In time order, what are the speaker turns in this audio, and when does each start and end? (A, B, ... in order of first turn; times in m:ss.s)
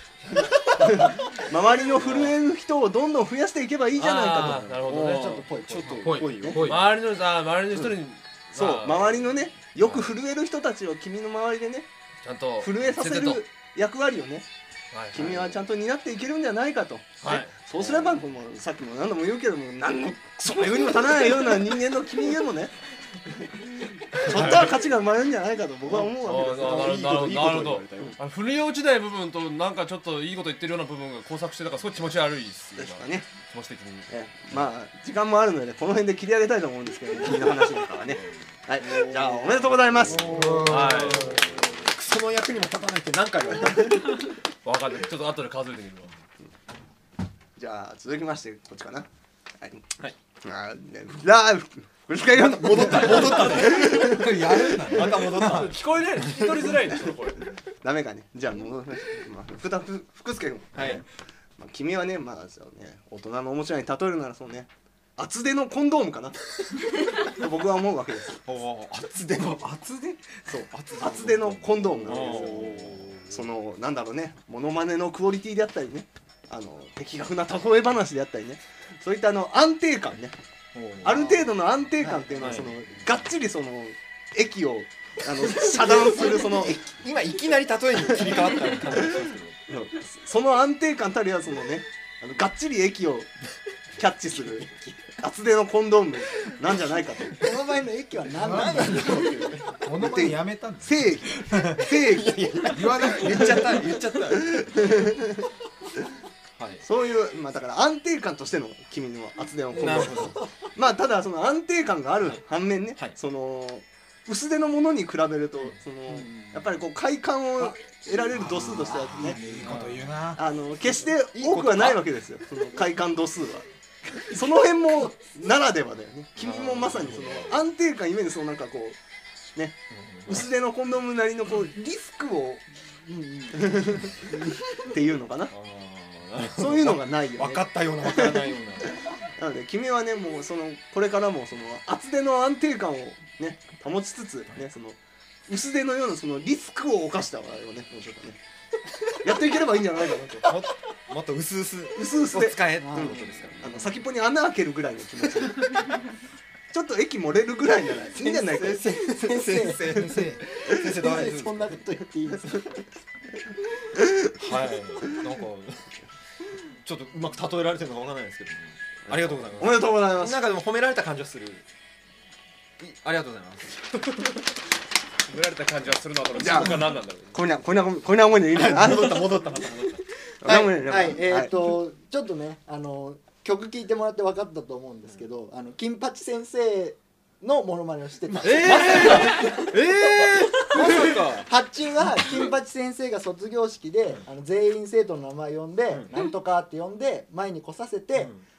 0:00.4-0:04.8 A
0:02.0-0:02.3 B
0:04.0-0:09.2 B
0:04.8-0:06.8 C
0:06.4-0:06.7 A
0:08.5-0:11.9 A
0:09.8-0:10.1 B
0:12.2-0:13.4 B
0:12.6-0:14.5 A
0:14.9-0:15.5 B
0:15.1-0:22.7 A
0:17.2-0:17.6 B
0:24.2-0:26.8 A
0:24.3-0:24.7 B
0:26.2-0:34.7 B
0:26.4-0:28.2 C
0:32.8-0:33.3 A
0:34.1-0:40.7 A
0:38.8-0:44.3 C
0:40.4-0:41.4 D
0:40.7-0:41.4 B
0:44.6-0:46.1 B
0:47.6-0:49.1 A
0:49.6-0:49.9 A
0:50.4-0:54.9 A
0:52.3-0:55.8 C
0:53.6-0:55.5 D
0:55.4-0:57.4 B
0:57.8-1:01.0 A
1:00.8-1:01.0 C
1:01.6-1:08.4 A
1:08.5-1:13.3 C
1:10.5-1:20.4 A
1:20.8-1:21.5 C
1:21.0-1:26.9 A
1:22.3-1:23.0 C
1:25.6-1:29.6 C
1:29.7-1:33.3 A
1:34.0-1:37.4 A
1:37.4-1:39.3 E
1:38.4-1:39.2 D
1:38.4-1:39.9 C
1:39.8-1:41.8 D
1:39.9-1:42.9 A
1:41.5-1:45.0 C
1:42.7-1:44.0 D
1:44.4-1:45.3 A
1:46.6-1:46.8 C
1:46.8-1:59.6 A
1:49.7-1:50.5 C
1:59.4-2:00.4 D
1:59.6-2:00.1 C
2:00.4-2:03.7 A
2:01.3-2:02.0 C
2:04.2-2:09.0 A
2:06.4-2:07.6 C
2:09.6-2:12.6 A
2:10.0-2:10.5 C
2:13.5-2:15.5 A
2:15.5-2:19.0 C
2:16.5-2:18.5 A
2:19.4-2:28.4 A
2:29.1-2:30.6 A
2:30.4-2:34.0 C
2:32.0-2:36.0 A
2:32.8-2:33.3 E
2:36.7-2:38.9 A
2:38.2-2:41.7 C
2:38.8-2:40.2 E
2:39.9-2:40.4 D
2:40.8-2:42.7 E
2:44.4-2:46.0 C
2:46.8-2:51.6 C
2:49.6-2:50.5 A
2:52.8-2:54.1 C
2:55.3-2:57.4 B
2:56.4-2:59.5 A
2:58.5-3:00.0 C
3:00.4-3:01.5 A
3:00.4-3:09.7 E
3:08.4-3:11.5 C
3:08.4-3:09.4 B
3:10.6-3:18.3 E
3:15.9-3:16.2 C
3:18.2-3:18.4 C